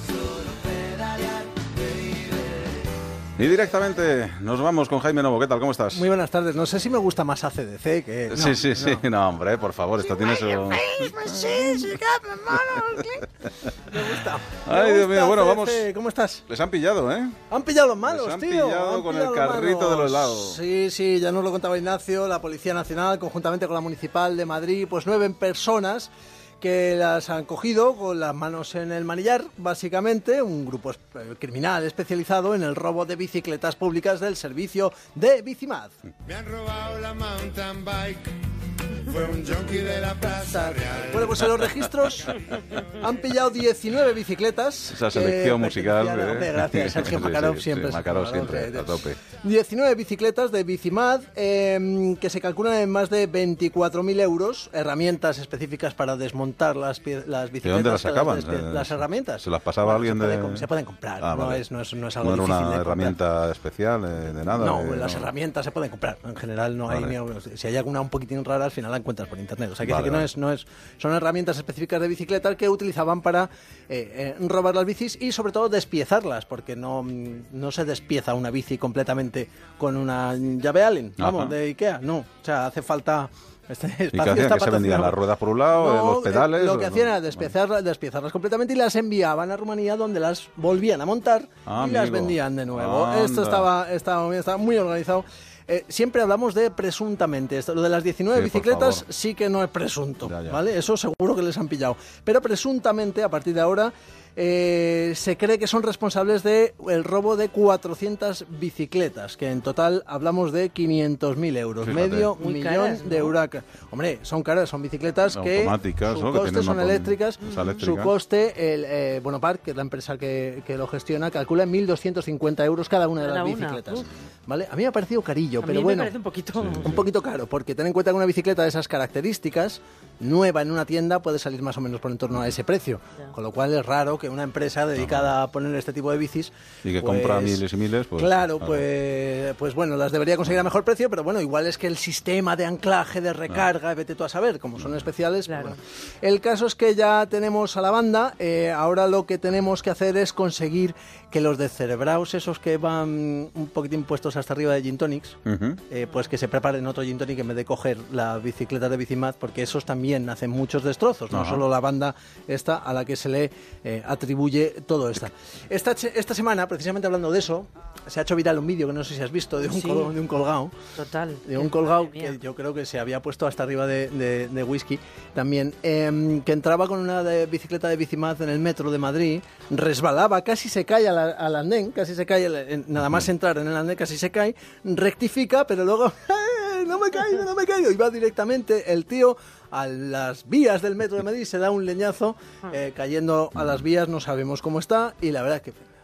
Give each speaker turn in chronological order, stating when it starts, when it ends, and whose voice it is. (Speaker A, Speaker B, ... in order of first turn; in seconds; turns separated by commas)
Speaker A: 3.4-6.1, Speaker B: 5.9-9.0, Speaker A: 8.3-14.0, Speaker B: 10.0-13.3, Speaker B: 13.8-16.4, Speaker A: 14.6-15.9, Speaker A: 16.5-17.4, Speaker B: 17.5-36.0, Speaker A: 18.0-20.6, Speaker C: 36.3-38.4, Speaker B: 39.1-63.2, Speaker C: 39.1-40.3, Speaker A: 44.9-49.2, Speaker A: 57.6-60.7, Speaker A: 61.2-61.6, Speaker A: 62.2-65.3, Speaker B: 64.5-85.2, Speaker A: 66.9-67.1, Speaker A: 69.8-70.3, Speaker A: 81.2-81.5, Speaker A: 84.1-87.5, Speaker B: 85.7-126.1, Speaker A: 91.7-93.7, Speaker A: 98.3-99.0, Speaker A: 100.2-100.6, Speaker A: 111.8-112.3, Speaker D: 112.4-113.3, Speaker A: 115.3-118.1, Speaker D: 117.4-117.8, Speaker D: 123.2-124.1, Speaker D: 125.6-127.0, Speaker A: 126.5-127.0, Speaker B: 126.8-137.6, Speaker A: 135.0-135.3, Speaker A: 136.8-138.9, Speaker B: 138.2-170.7, Speaker D: 145.5-145.8, Speaker A: 155.5-155.8, Speaker A: 161.3-161.6, Speaker D: 169.6-170.1, Speaker D: 171.0-172.4, Speaker B: 171.5-195.8